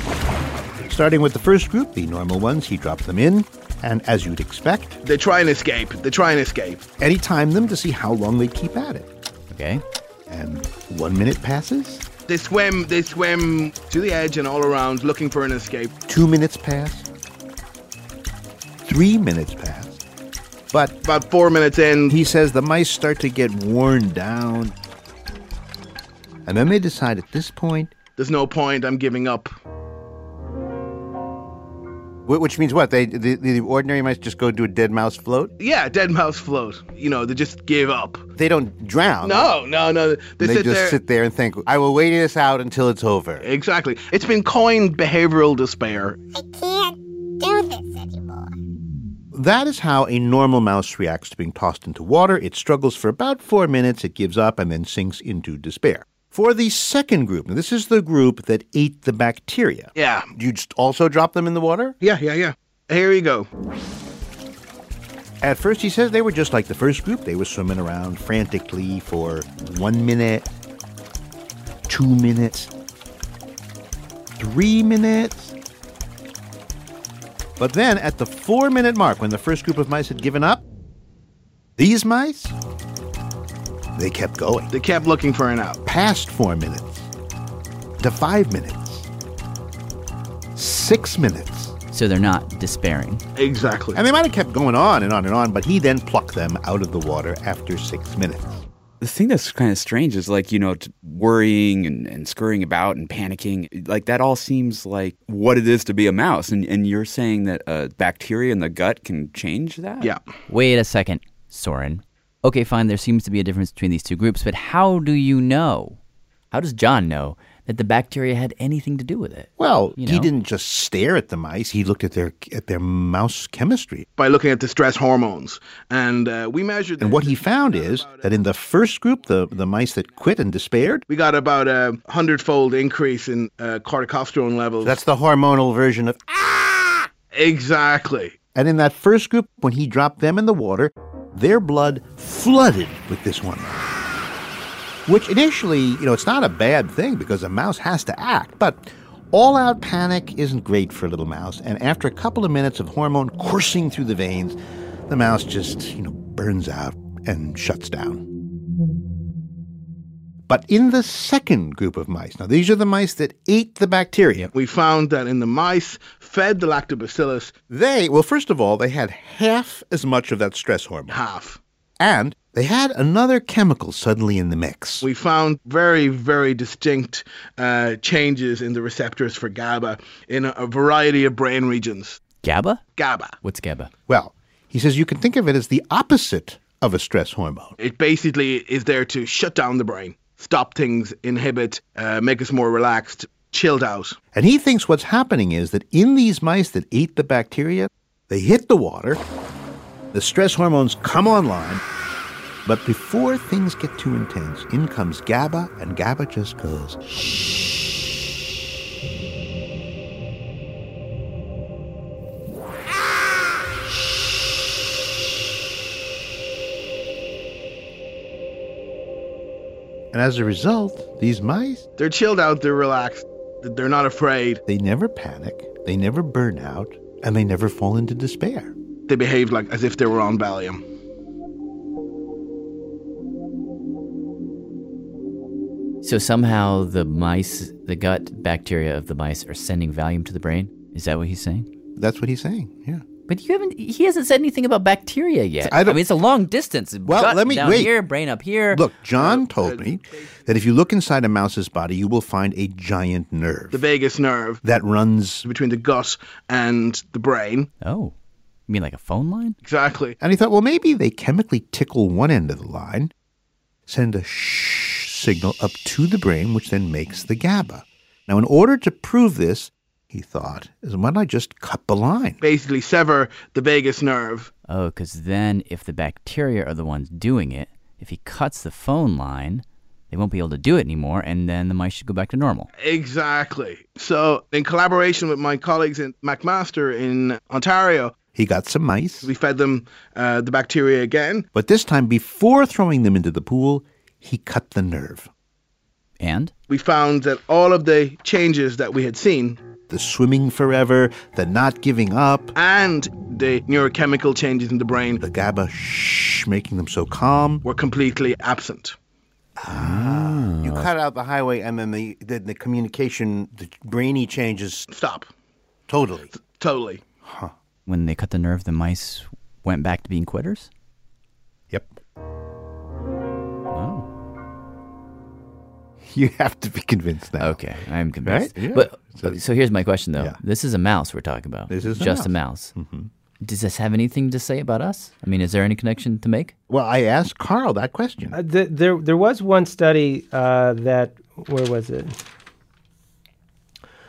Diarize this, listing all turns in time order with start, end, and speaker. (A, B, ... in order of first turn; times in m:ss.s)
0:00.9-0:05.0 A
0:05.0-0:06.9 B
0:07.0-0:09.1 A
0:09.5-0:09.8 C
0:10.3-0:12.0 A
0:12.3-0:15.9 B
0:16.1-0:17.1 A
0:18.8-0:20.0 A
0:21.0-0:22.2 B
0:22.1-0:24.8 A
0:26.5-0:28.0 A
0:28.2-0:29.5 B
0:32.3-0:35.5 A
0:35.6-0:38.2 B
0:38.4-0:39.6 A
0:39.2-0:41.0 B
0:40.4-0:43.5 A
0:43.4-0:46.2 B
0:49.3-1:02.0 A
1:00.0-1:00.3 B
1:02.0-1:03.5 B
1:05.4-1:10.5 A
1:11.9-1:12.7 A
1:14.4-1:15.5 A
1:17.6-1:20.6 A
1:21.8-1:22.6 A
1:24.0-1:24.7 A
1:24.7-1:25.8 B
1:25.8-1:27.1 A
1:28.0-1:29.1 A
1:30.6-1:31.8 A
1:31.9-1:33.2 C
1:33.4-1:34.0 B
1:33.9-1:38.6 A
1:39.0-1:50.1 D
1:50.5-1:56.0 C
1:56.5-2:00.3 C
1:59.6-2:04.0 A
2:04.2-2:08.3 B
2:07.0-2:11.0 A
2:11.1-2:15.0 B
2:14.8-2:17.1 A
2:17.3-2:18.4 B
2:18.5-2:23.9 A
2:25.1-2:34.6 A
2:35.1-2:38.2 A
2:40.5-2:44.5 A
2:44.5-2:47.5 B
2:47.7-2:51.2 A
2:51.1-2:51.6 B
2:52.0-2:55.1 A
2:55.0-3:02.2 B
3:02.4-3:02.8 C
3:03.0-3:03.4 B
3:03.4-3:03.9 C
3:04.1-3:07.8 A
3:07.8-3:14.2 B
3:14.3-3:19.2 A
3:20.1-3:21.8 A
3:22.6-3:27.0 A
3:40.1-3:41.9 A
3:42.0-3:44.6 B
3:44.7-3:48.7 A
3:49.1-3:50.8 B
3:56.0-4:01.7 C
4:02.0-4:03.0 A
4:03.3-4:08.8 C
4:05.6-4:06.0 A
4:07.1-4:07.9 A
4:08.7-4:13.8 A
4:09.1-4:10.4 B
4:13.7-4:14.6 B
4:14.6-4:15.5 A
4:15.4-4:17.7 B
4:17.8-4:18.1 C
4:18.7-4:19.6 C
4:19.6-4:20.2 B
4:20.2-4:23.1 A
4:23.9-4:32.4 A
4:32.4-4:34.5 B
4:34.7-4:42.7 C
4:42.8-4:48.2 B
4:48.3-4:49.3 A
4:49.2-4:51.5 B
4:51.5-4:55.3 A
4:56.2-4:56.5 C
4:56.7-4:59.6 B
4:59.9-5:02.5 A
5:02.6-5:05.2 B
5:05.2-5:07.6 A
5:07.6-5:09.0 B
5:09.6-5:14.9 A
5:09.7-5:10.9 D
5:14.9-5:15.3 B
5:15.9-5:16.3 A
5:16.4-5:17.0 B
5:17.2-5:17.5 A
5:17.9-5:20.7 C
5:21.7-5:22.0 A
5:23.7-5:24.0 C
5:26.0-5:27.6 A
5:27.4-5:32.7 C
5:28.2-5:29.4 A
5:31.7-5:33.1 A
5:33.4-5:36.5 C
5:36.7-5:38.4 A
5:38.3-5:42.2 E